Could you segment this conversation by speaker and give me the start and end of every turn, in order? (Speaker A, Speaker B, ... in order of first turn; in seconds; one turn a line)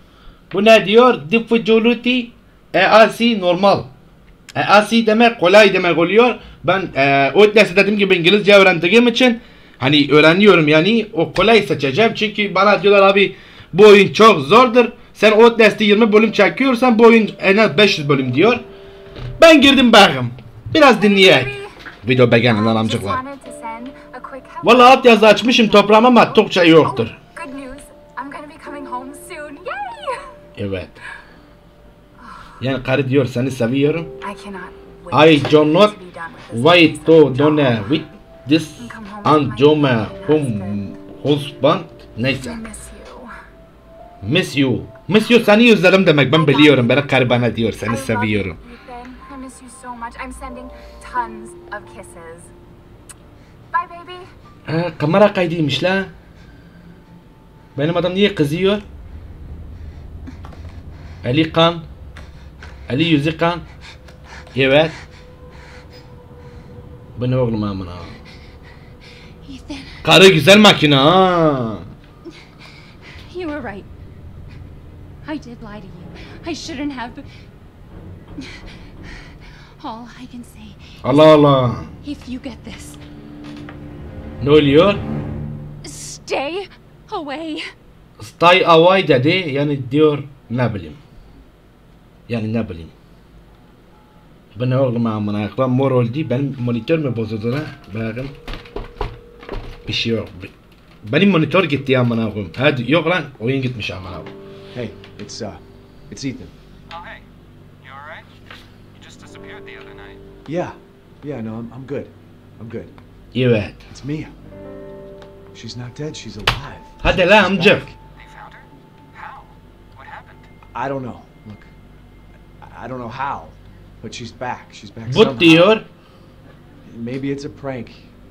Speaker A: 0.5-3.9
Speaker A: 4.5-18.6
Speaker A: 19.4-23.2
Speaker B: 20.9-21.7
Speaker B: 22.3-30.3
Speaker A: 24.6-27.2
Speaker A: 30.6-31.0
Speaker B: 32.2-32.5
Speaker A: 32.6-34.1
Speaker B: 34.2-37.9
Speaker A: 35.1-36.0
Speaker A: 36.5-42.6
Speaker B: 38.8-40.9
Speaker B: 42.3-43.3
Speaker A: 44.2-48.6
Speaker B: 46.3-52.5
Speaker B: 53.7-54.3
Speaker A: 54.7-56.1
Speaker A: 57.8-58.8
Speaker A: 61.2-61.8
Speaker A: 62.9-63.6
Speaker A: 64.5-64.9
Speaker A: 67.2-68.2
Speaker B: 69.5-70.0
Speaker A: 70.0-71.9
Speaker B: 73.3-73.9
Speaker B: 75.2-77.3
Speaker B: 78.4-81.3
Speaker A: 81.0-81.9
Speaker B: 82.0-83.0
Speaker A: 84.4-85.0
Speaker B: 85.8-87.6
Speaker A: 88.2-91.0
Speaker A: 92.3-92.9
Speaker A: 94.5-98.3
Speaker A: 99.9-100.5
Speaker A: 101.0-104.3
Speaker C: 104.7-106.5
Speaker D: 106.9-107.2
Speaker D: 107.8-108.3
Speaker D: 108.9-110.2
Speaker C: 110.5-112.9
Speaker A: 113.3-113.8
Speaker C: 113.9-114.3
Speaker C: 115.5-118.0
Speaker A: 117.0-117.9
Speaker D: 118.2-120.5
Speaker C: 120.7-121.7
Speaker C: 122.6-125.8
Speaker A: 125.1-125.9
Speaker C: 126.8-128.1